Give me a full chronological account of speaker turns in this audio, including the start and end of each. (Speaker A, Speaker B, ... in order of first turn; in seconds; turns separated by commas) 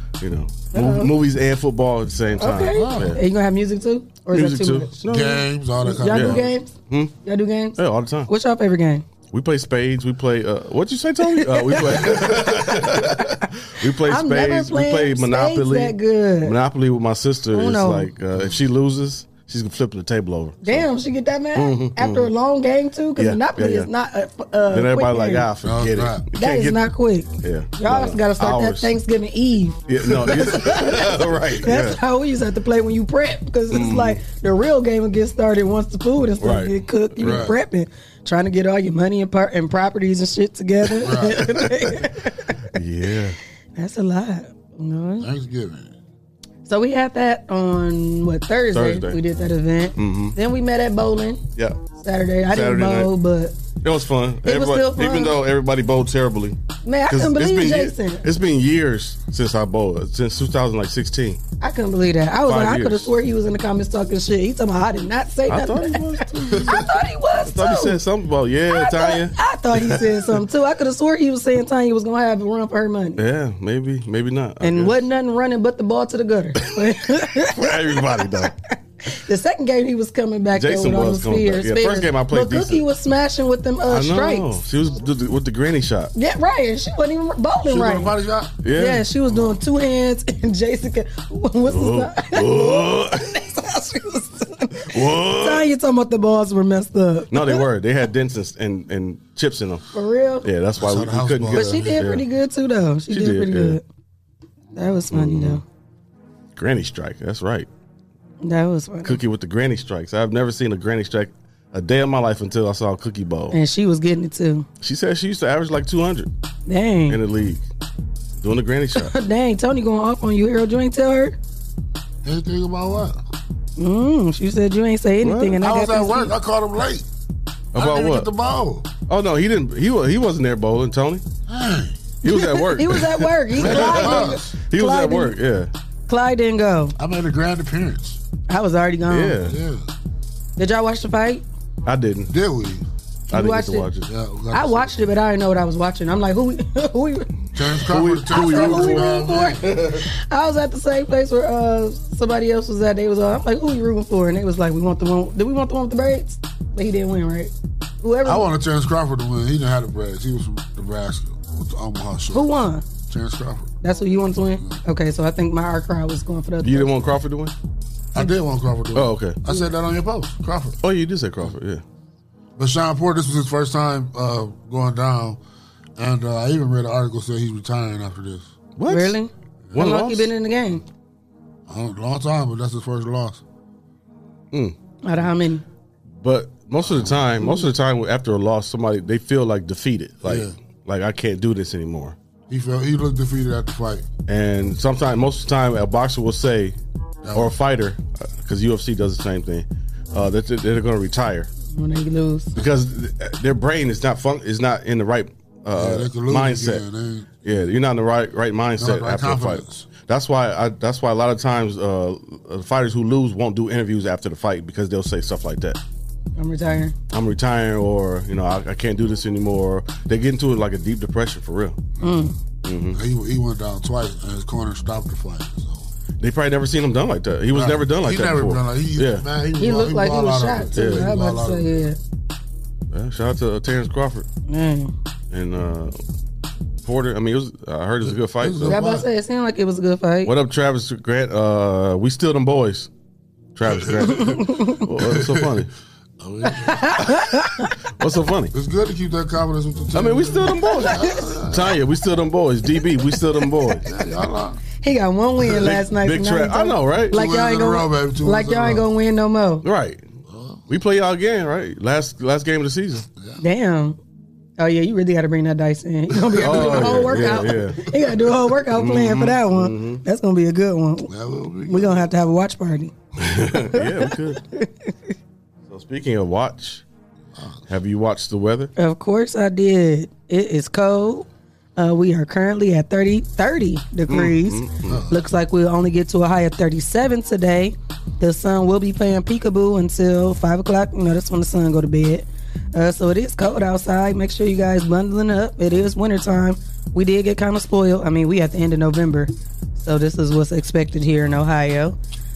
Speaker A: 0.2-3.2, Speaker B: 0.7-1.1, Speaker B: 2.4-5.0, Speaker C: 2.7-3.2, Speaker A: 4.3-5.5, Speaker C: 5.0-6.5, Speaker B: 5.8-6.7, Speaker A: 6.0-7.1, Speaker B: 7.2-9.1, Speaker A: 7.8-8.3, Speaker A: 9.3-20.9, Speaker B: 11.3-13.2, Speaker B: 14.0-16.6, Speaker B: 17.5-18.1, Speaker B: 20.6-25.5, Speaker A: 21.6-22.3, Speaker A: 23.2-23.9, Speaker A: 24.7-26.8, Speaker C: 25.6-26.3, Speaker B: 26.3-42.6, Speaker A: 27.4-28.9, Speaker A: 29.9-32.0, Speaker A: 33.7-34.2, Speaker A: 36.4-37.5, Speaker C: 37.2-37.6, Speaker A: 41.0-42.1, Speaker C: 41.0-41.4, Speaker A: 42.7-43.4, Speaker B: 43.8-45.3, Speaker C: 45.2-45.9, Speaker B: 46.7-51.4, Speaker A: 48.7-49.2, Speaker A: 50.0-50.4, Speaker B: 52.0-53.6, Speaker A: 52.5-53.1, Speaker A: 53.8-61.4, Speaker B: 54.4-55.4, Speaker B: 56.8-58.2, Speaker B: 61.6-68.0, Speaker A: 62.4-63.1, Speaker A: 65.5-70.4, Speaker B: 68.7-73.2, Speaker A: 73.2-75.1, Speaker B: 74.6-78.3, Speaker A: 77.4-78.5, Speaker B: 79.0-84.6, Speaker A: 80.5-82.8, Speaker A: 83.9-86.1, Speaker B: 86.2-88.1, Speaker C: 87.6-88.6, Speaker A: 88.6-89.1, Speaker B: 88.7-97.7, Speaker A: 91.7-93.4, Speaker A: 94.9-95.7, Speaker A: 97.3-99.8, Speaker B: 99.9-100.5, Speaker A: 100.4-102.2, Speaker C: 100.8-102.0, Speaker B: 101.5-103.8, Speaker A: 103.1-103.8, Speaker B: 104.8-105.6, Speaker A: 105.1-105.6, Speaker A: 106.5-107.7, Speaker B: 108.4-109.2, Speaker A: 109.0-113.6, Speaker B: 113.5-114.7, Speaker A: 114.8-116.3, Speaker B: 116.7-117.2, Speaker A: 117.1-117.6, Speaker A: 118.4-119.1, Speaker B: 119.0-121.4, Speaker C: 122.2-123.2, Speaker B: 123.8-126.3, Speaker A: 125.2-125.6, Speaker C: 125.6-127.1, Speaker A: 127.7-128.3, Speaker C: 127.8-128.9, Speaker A: 129.1-131.2, Speaker C: 131.5-132.1, Speaker A: 132.2-135.7, Speaker B: 132.3-135.4, Speaker C: 133.6-134.5, Speaker B: 136.1-137.0, Speaker C: 137.0-138.2, Speaker B: 138.5-139.4, Speaker A: 139.1-139.6, Speaker C: 139.4-139.9, Speaker B: 140.6-141.4, Speaker A: 141.8-142.3, Speaker C: 142.3-142.8, Speaker B: 143.3-143.9, Speaker A: 143.3-144.1, Speaker C: 144.1-145.1, Speaker B: 144.5-147.5, Speaker C: 147.5-149.7, Speaker A: 147.9-150.1, Speaker B: 148.3-158.5, Speaker C: 158.2-163.7, Speaker B: 162.3-162.9, Speaker B: 163.8-167.0, Speaker A: 166.6-167.6, Speaker C: 168.1-170.8, Speaker A: 168.9-169.4, Speaker A: 170.8-171.8, Speaker C: 172.6-175.4, Speaker C: 176.0-178.5, Speaker A: 178.8-179.2, Speaker B: 178.9-180.8, Speaker A: 179.7-180.3, Speaker C: 181.7-183.4, Speaker B: 185.0-185.6, Speaker A: 186.2-192.2, Speaker C: 186.9-187.2, Speaker C: 190.2-190.6, Speaker C: 192.5-194.1, Speaker A: 194.3-196.8, Speaker C: 197.2-197.5, Speaker A: 197.3-201.5, Speaker B: 201.7-202.5, Speaker A: 202.6-206.8, Speaker C: 205.7-207.4, Speaker A: 207.4-215.8, Speaker C: 208.8-209.9, Speaker B: 216.4-216.9, Speaker A: 217.1-221.8, Speaker B: 222.0-222.3, Speaker A: 222.7-223.0, Speaker C: 222.9-225.9, Speaker A: 226.2-229.3, Speaker C: 227.5-231.9, Speaker B: 229.6-232.0, Speaker A: 230.8-231.1, Speaker A: 232.9-234.3, Speaker B: 234.5-234.9, Speaker A: 235.3-236.0, Speaker A: 236.8-238.8, Speaker C: 238.3-239.1, Speaker B: 238.7-240.3, Speaker A: 240.2-242.9, Speaker A: 243.6-245.7, Speaker C: 243.8-244.1, Speaker B: 244.0-244.8, Speaker C: 245.0-245.6, Speaker C: 246.2-247.0, Speaker B: 246.5-247.7, Speaker A: 247.0-248.5, Speaker C: 248.5-251.8, Speaker A: 249.9-253.9, Speaker B: 250.6-251.2, Speaker C: 253.8-254.6, Speaker B: 254.8-259.6, Speaker A: 255.5-257.2, Speaker C: 257.1-258.9, Speaker A: 259.6-260.1, Speaker C: 260.3-260.6, Speaker A: 260.7-263.1, Speaker B: 263.4-264.0, Speaker B: 264.6-271.1, Speaker C: 266.1-267.6, Speaker A: 266.4-267.9, Speaker A: 268.7-270.0, Speaker C: 271.1-272.1, Speaker B: 271.7-272.9, Speaker A: 273.2-274.4, Speaker B: 273.7-274.9, Speaker A: 275.7-276.8, Speaker C: 277.4-277.6, Speaker A: 277.7-278.7, Speaker B: 278.8-302.0, Speaker A: 284.1-285.0, Speaker C: 284.9-285.2